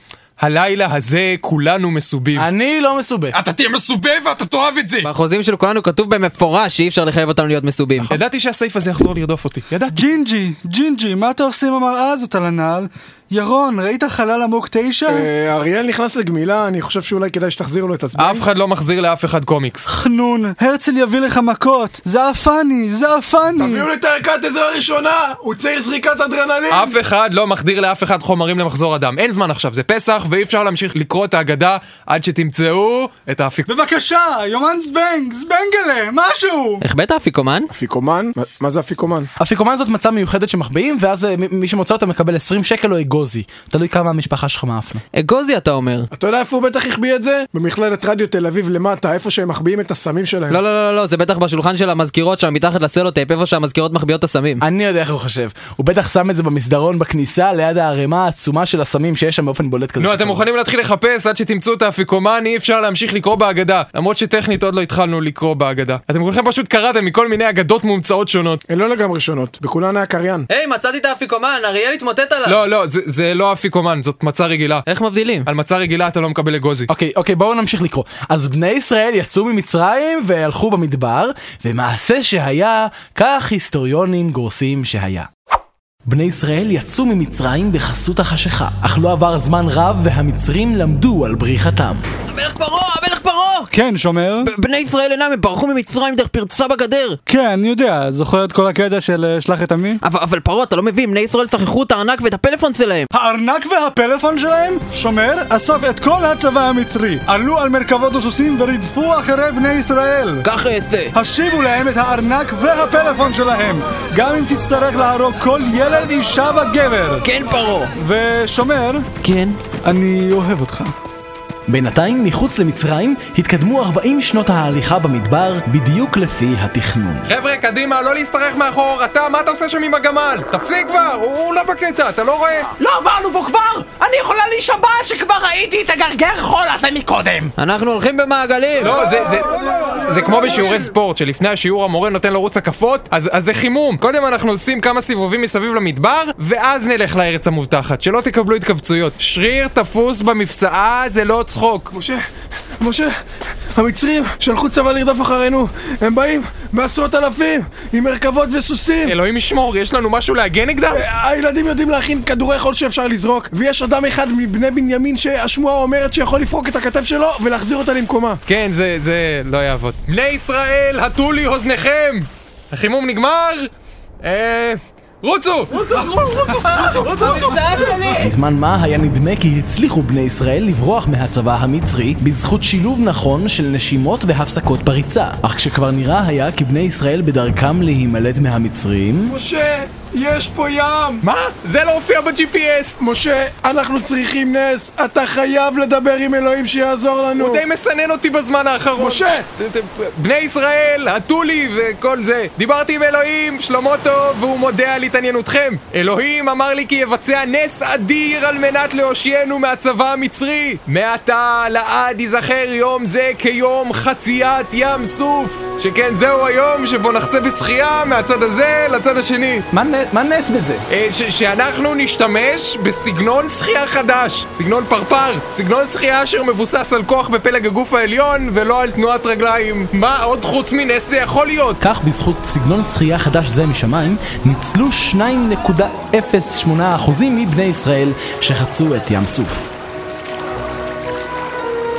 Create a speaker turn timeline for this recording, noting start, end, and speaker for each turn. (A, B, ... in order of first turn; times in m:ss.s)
0:00.4-0:02.5 A
0:02.4-0:03.4 B
0:03.3-0:05.1 A
0:05.0-0:08.1 C
0:08.1-0:10.0 A
0:09.9-0:15.3 D
0:15.1-0:18.4 E
0:18.2-0:19.9 A
0:19.9-0:23.9 D
0:23.6-0:26.9 E
0:26.7-0:33.7 A
0:33.7-0:36.8 D
0:36.8-0:37.7 C
0:37.7-0:39.3 E
0:39.4-0:45.0 B
0:45.1-0:46.1 C
0:46.1-0:50.6 E
0:50.5-0:54.6 C
0:54.6-1:00.4 B
1:00.0-1:08.6 A
1:08.7-1:10.5 E
1:10.5-1:12.6 C
1:12.5-1:14.8 A
1:14.9-1:15.5 C
1:15.5-1:16.9 A
1:16.9-1:25.3 B
1:26.1-1:32.0 B
1:32.3-1:33.7 C
1:33.7-1:34.5 D
1:34.4-1:37.2 C
1:37.3-1:40.0 D
1:40.0-1:43.1 C
1:43.1-1:50.4 D
1:50.4-1:51.1 C
1:51.1-1:57.2 D
1:57.2-1:57.9 C
1:58.0-1:59.1 D
1:59.2-1:59.6 C
1:59.8-2:00.9 D
2:01.7-2:07.2 B
2:07.3-2:12.7 A
2:12.8-2:17.5 F
2:17.6-2:19.0 C
2:18.8-2:31.9 A
2:31.9-2:32.2 E
2:32.8-2:33.1 E
2:33.8-2:39.2 E
2:39.0-2:41.0 A
2:40.9-2:48.4 E
2:48.5-2:53.7 A
2:54.2-2:57.6 A
2:57.0-2:58.3 C
2:58.2-3:09.4 B
3:09.3-3:11.2 E
3:11.2-3:13.0 A
3:13.0-3:17.6 E
3:17.4-3:39.7 A
3:19.0-3:19.4 E
3:39.7-3:40.8 B
3:40.9-3:51.8 A
3:51.8-3:59.7 B